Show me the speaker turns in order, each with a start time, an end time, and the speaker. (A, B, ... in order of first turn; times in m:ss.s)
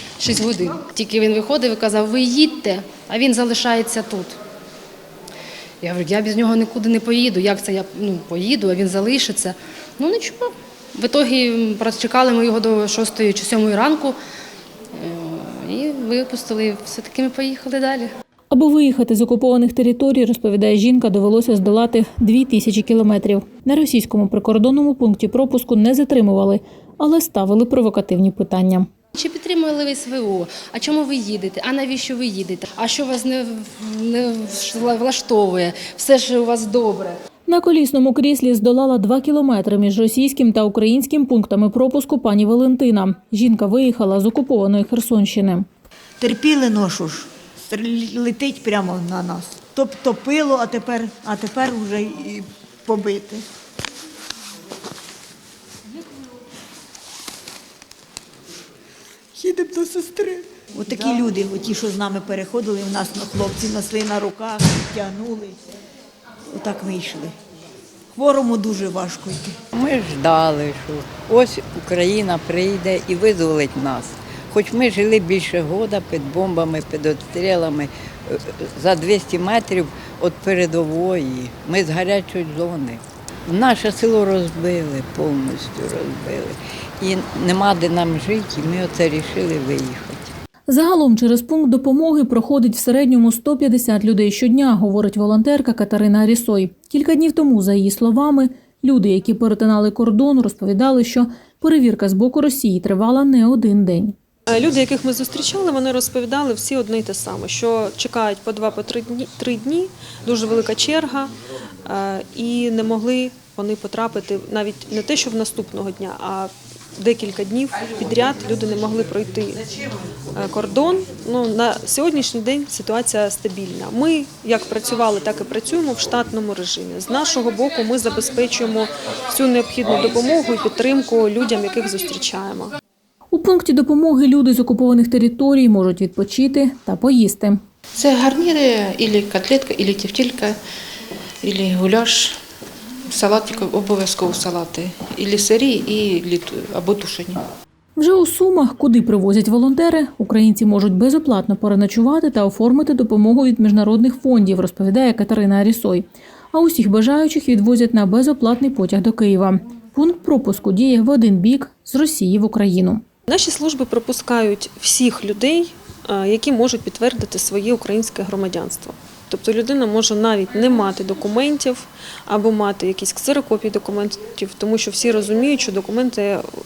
0:00.2-0:04.4 A
0:05.8-0:14.2 A
0:14.9-0:18.1 A
0:18.5-0:28.9 B
0:29.1-0:37.2 A
0:37.5-0:45.7 B
0:46.2-0:53.4 C
0:59.3-1:05.6 C
1:06.5-1:07.3 C
1:08.1-1:09.6 C
1:09.7-1:30.2 D
1:30.7-1:44.1 B
1:44.5-1:51.3 E
1:51.8-1:59.6 E
2:00.3-2:12.8 E
2:13.3-2:17.6 B
2:18.0-2:20.5 F
2:21.4-2:22.4 F
2:23.1-2:27.4 F
2:28.0-2:43.0 B
2:43.3-2:56.5 E